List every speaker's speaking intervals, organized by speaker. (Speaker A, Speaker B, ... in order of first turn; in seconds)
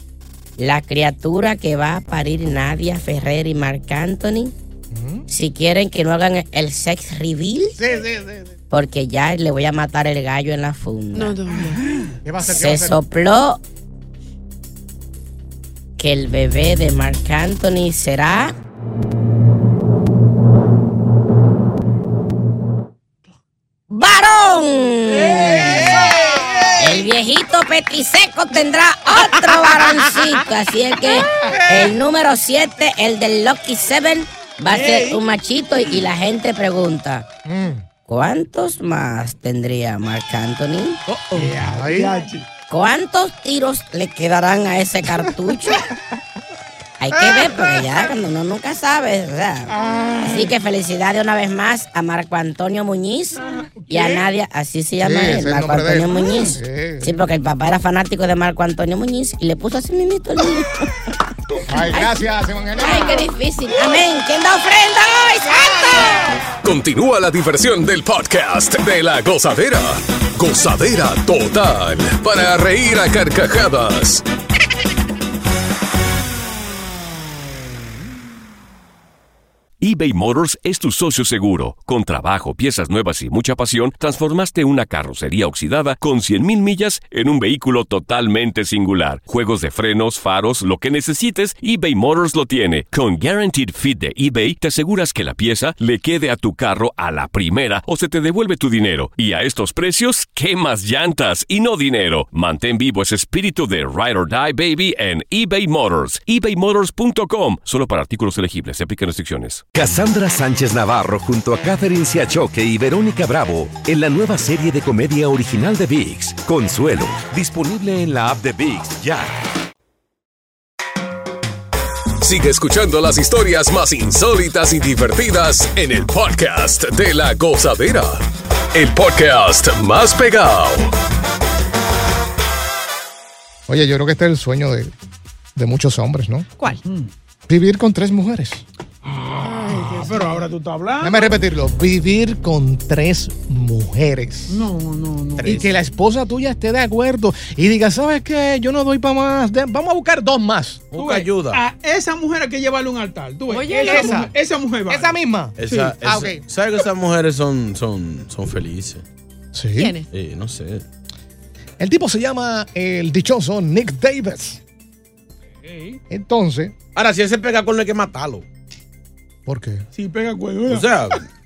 Speaker A: 0.6-4.5, 5.3-7.8, 8.7-11.3, 12.4-13.6, 16.0-18.6, 23.9-26.2, 26.8-37.3, 38.1-41.0, 42.7-45.8, 47.0-49.7, 50.2-62.2, 62.8-66.4
Speaker B: 4.9-5.2, 7.8-8.6, 12.2-13.0, 25.6-27.0, 31.4-31.9, 37.4-37.8, 41.4-42.2, 45.1-45.8, 47.1-47.7, 55.0-57.1, 61.6-63.3, 133.7-134.9, 135.6-136.4, 137.5-138.6, 141.0-144.6, 145.4-150.8, 153.8-154.3, 154.9-156.4, 159.5-159.9, 161.8-164.6, 166.1-166.7, 169.4-169.9
Speaker C: 11.1-11.8, 139.4-140.4, 153.5-154.3, 159.7-160.1
Speaker D: 11.5-12.2, 25.0-27.0, 34.6-35.2, 41.3-42.5, 49.8-50.4, 53.8-54.3, 136.8-137.1, 139.0-141.3, 144.5-145.7, 150.9-155.1, 165.6-166.0, 169.9-171.2
Speaker E: 66.6-74.2, 122.2-130.9
Speaker F: 79.8-109.7
Speaker G: 109.7-119.3
Speaker H: 150.9-151.6, 155.6-159.0, 160.1-160.8, 166.9-168.4, 170.7-171.2